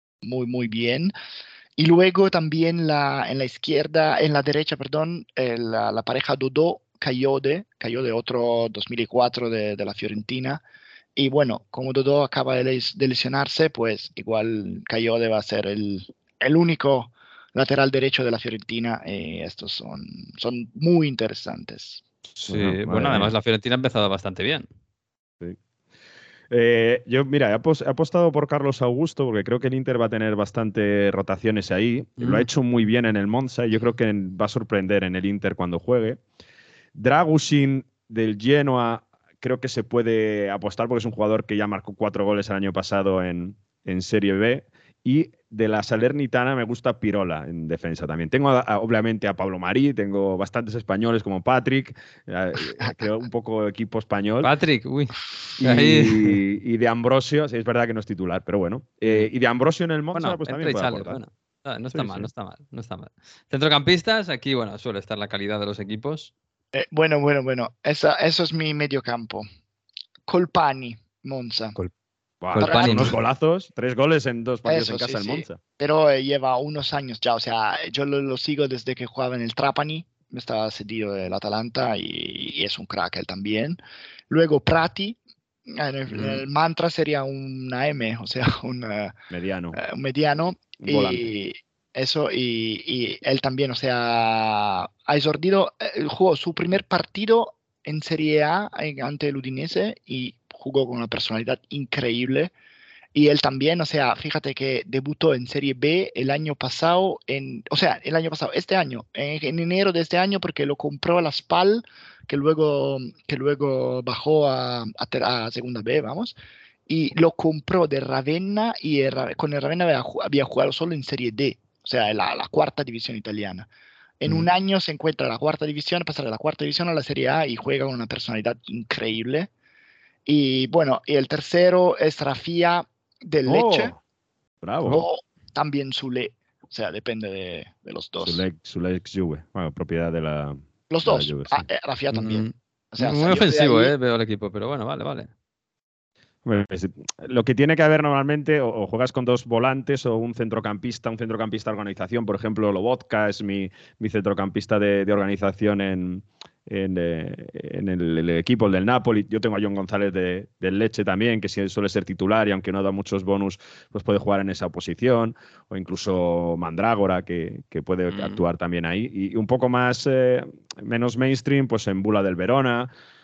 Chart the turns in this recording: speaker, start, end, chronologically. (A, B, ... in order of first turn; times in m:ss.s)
0:00.2-0:01.1 A
0:01.8-0:10.6 A
0:11.2-0:22.0 A
0:22.4-0:24.7 B
0:22.5-0:23.3 C
0:26.5-0:36.2 C
0:32.2-0:32.5 B
0:37.0-0:54.5 C
0:54.4-0:56.4 B
0:55.6-1:01.2 C
1:00.1-1:06.3 B
1:01.9-1:02.3 C
1:06.7-1:09.5 A
1:10.3-1:11.8 A
1:12.4-1:15.6 C
1:12.5-1:13.2 B
1:12.6-1:13.2 A
1:14.7-1:29.1 A
1:26.1-1:26.4 C
1:29.3-1:29.8 C
1:29.7-1:42.5 A
1:30.8-1:31.2 C
1:43.2-1:56.4 A
1:56.9-2:03.7 A
2:04.2-2:09.5 A
2:10.3-2:14.0 A
2:13.5-2:14.0 C
2:14.6-2:15.0 C
2:14.9-2:18.4 A
2:18.2-2:21.7 C
2:20.9-2:23.9 A
2:22.1-2:25.3 B
2:26.4-2:52.9 C
2:48.1-2:48.4 B